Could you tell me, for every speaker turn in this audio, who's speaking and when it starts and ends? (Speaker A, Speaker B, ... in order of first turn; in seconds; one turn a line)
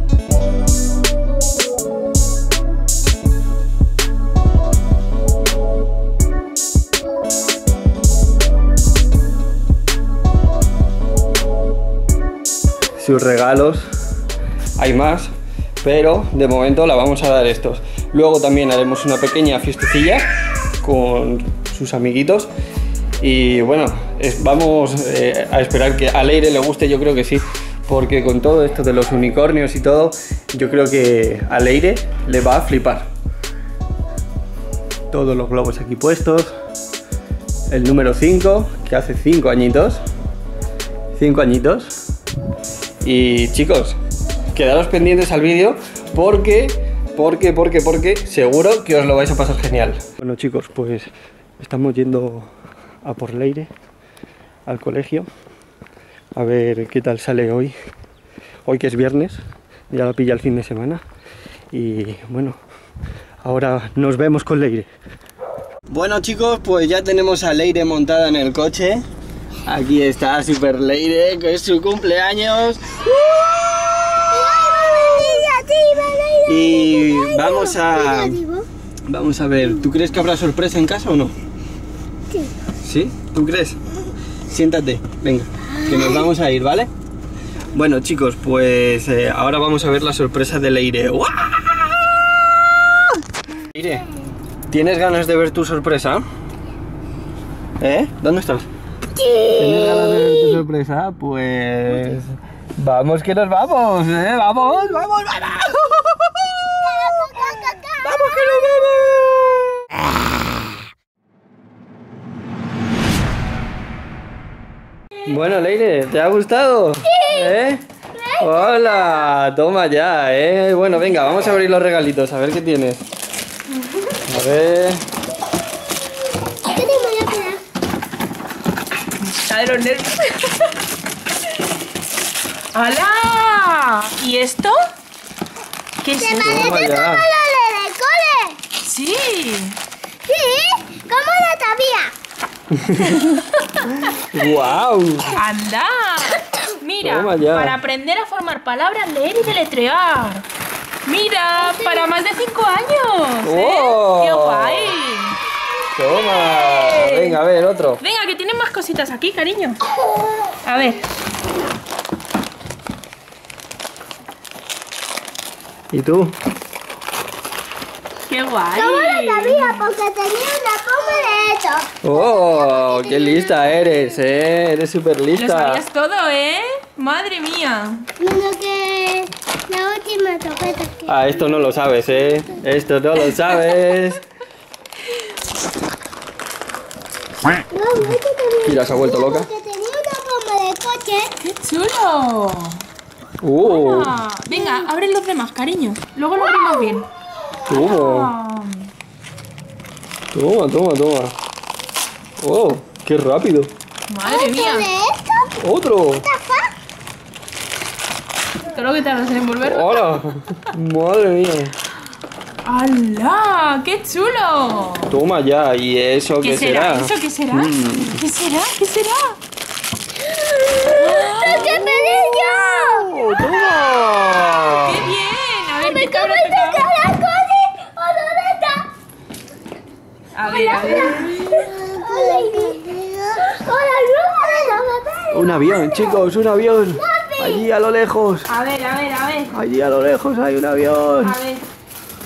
Speaker A: 13.0-13.9
Speaker A: 14.8-15.3
Speaker A: 15.8-20.3
Speaker A: 20.8-22.5
Speaker A: 23.2-33.1
Speaker A: 35.1-36.5
Speaker A: 37.7-40.0
Speaker A: 41.1-41.9
Speaker A: 43.0-44.0
Speaker A: 44.5-52.5
Speaker A: 53.0-53.7
Speaker A: 54.7-55.3
Speaker A: 56.4-57.8
Speaker A: 58.6-59.4
Speaker A: 59.9-61.0
Speaker A: 61.7-62.6
Speaker A: 63.4-64.9
Speaker A: 65.9-69.0
Speaker A: 69.7-73.0
Speaker B: 73.2-78.7
Speaker A: 76.5-78.4
Speaker A: 79.1-81.3
Speaker A: 82.8-83.8
Speaker A: 84.5-86.9
Speaker B: 85.9-86.3
Speaker A: 87.7-92.2
Speaker A: 93.7-94.1
Speaker A: 94.7-96.2
Speaker A: 97.8-98.7
Speaker B: 99.2-100.6
Speaker A: 99.5-106.7
Speaker B: 106.8-108.3
Speaker A: 108.0-109.5
Speaker A: 115.2-117.8
Speaker B: 117.2-117.5
Speaker B: 118.3-119.1
Speaker A: 118.4-123.1
Speaker A: 124.3-125.0
Speaker B: 126.6-127.6
Speaker C: 129.2-130.7
Speaker C: 132.7-134.8
Speaker C: 136.0-136.8
Speaker B: 136.2-138.6
Speaker A: 136.4-137.3
Speaker C: 138.8-139.8
Speaker B: 140.3-142.1
Speaker A: 142.7-143.4
Speaker A: 144.0-145.4
Speaker C: 145.3-150.5
Speaker A: 147.0-147.8
Speaker C: 151.1-155.4
Speaker B: 151.6-152.1
Speaker A: 153.4-155.0
Speaker A: 155.9-158.0
Speaker C: 156.2-157.4
Speaker C: 158.0-159.8
Speaker C: 160.6-161.1
Speaker A: 165.9-166.3
Speaker C: 168.3-169.8
Speaker B: 168.7-173.6
Speaker A: 172.0-175.8
Speaker C: 175.3-178.1
Speaker B: 178.2-181.2
Speaker A: 181.1-184.3
Speaker B: 187.7-191.3
Speaker A: 188.6-189.5
Speaker C: 191.4-192.8
Speaker A: 193.4-194.2
Speaker C: 193.7-197.1
Speaker B: 194.5-194.9
Speaker A: 197.7-198.3
Speaker C: 197.7-198.9
Speaker A: 200.3-201.4
Speaker A: 202.4-203.7
Speaker C: 204.1-204.9
Speaker B: 204.2-205.5
Speaker A: 205.6-206.3
Speaker B: 206.2-206.7
Speaker C: 208.7-210.2
Speaker A: 209.6-211.8
Speaker C: 212.7-215.1
Speaker A: 215.1-218.2
Speaker C: 216.4-219.4
Speaker B: 220.3-224.8
Speaker C: 220.9-222.9
Speaker A: 222.9-225.1
Speaker C: 224.8-226.9
Speaker B: 225.8-228.9
Speaker C: 230.3-231.7
Speaker B: 230.5-236.3
Speaker A: 235.3-238.5
Speaker B: 237.0-237.7
Speaker C: 238.5-239.5
Speaker A: 239.5-241.4
Speaker C: 241.2-241.6